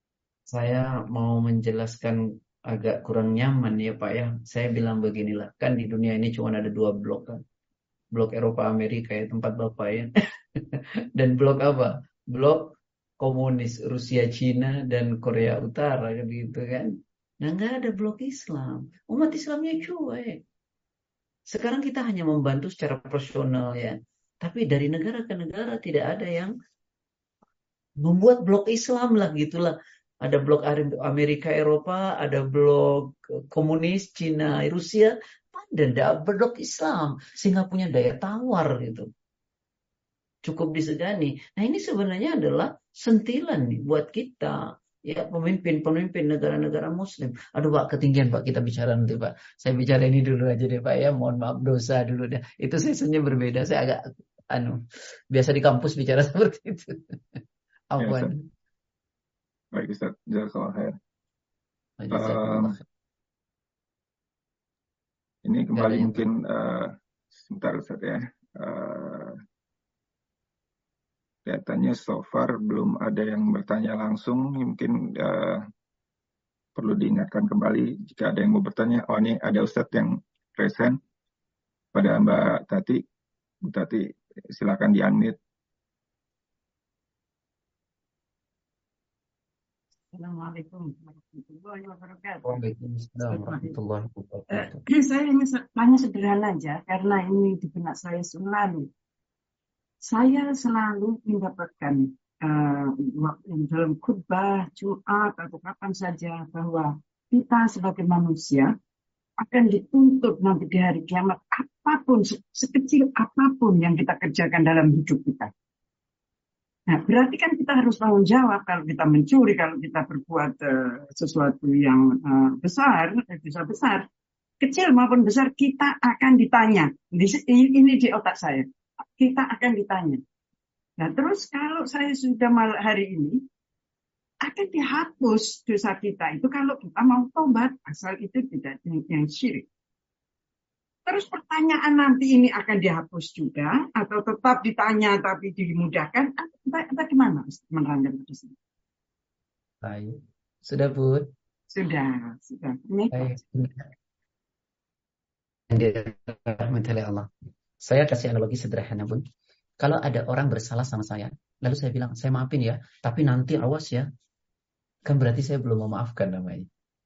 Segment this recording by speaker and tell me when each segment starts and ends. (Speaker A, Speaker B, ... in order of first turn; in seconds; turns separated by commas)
Speaker A: 0.5-7.4, Speaker A: 8.1-20.4, Speaker A: 21.5-26.5, Speaker A: 28.0-39.1, Speaker A: 40.4-58.4, Speaker B: 58.0-58.3, Speaker B: 59.7-60.9, Speaker A: 62.0-62.8, Speaker B: 62.1-62.7, Speaker B: 65.4-69.4, Speaker A: 65.7-66.2, Speaker B: 71.4-75.6, Speaker B: 76.8-81.0, Speaker B: 81.9-83.0, Speaker B: 83.6-85.4, Speaker C: 90.1-92.6, Speaker A: 92.4-94.8, Speaker C: 93.3-93.8, Speaker C: 94.5-98.9, Speaker C: 100.0-108.7, Speaker C: 109.4-115.5, Speaker C: 116.9-124.1, Speaker C: 124.6-130.2, Speaker C: 131.0-133.4, Speaker C: 134.4-139.7, Speaker C: 141.1-148.5, Speaker A: 149.8-151.3, Speaker C: 151.7-153.4, Speaker A: 153.1-153.9, Speaker A: 155.7-157.3, Speaker A: 157.8-159.2, Speaker A: 159.8-164.1, Speaker A: 165.1-166.7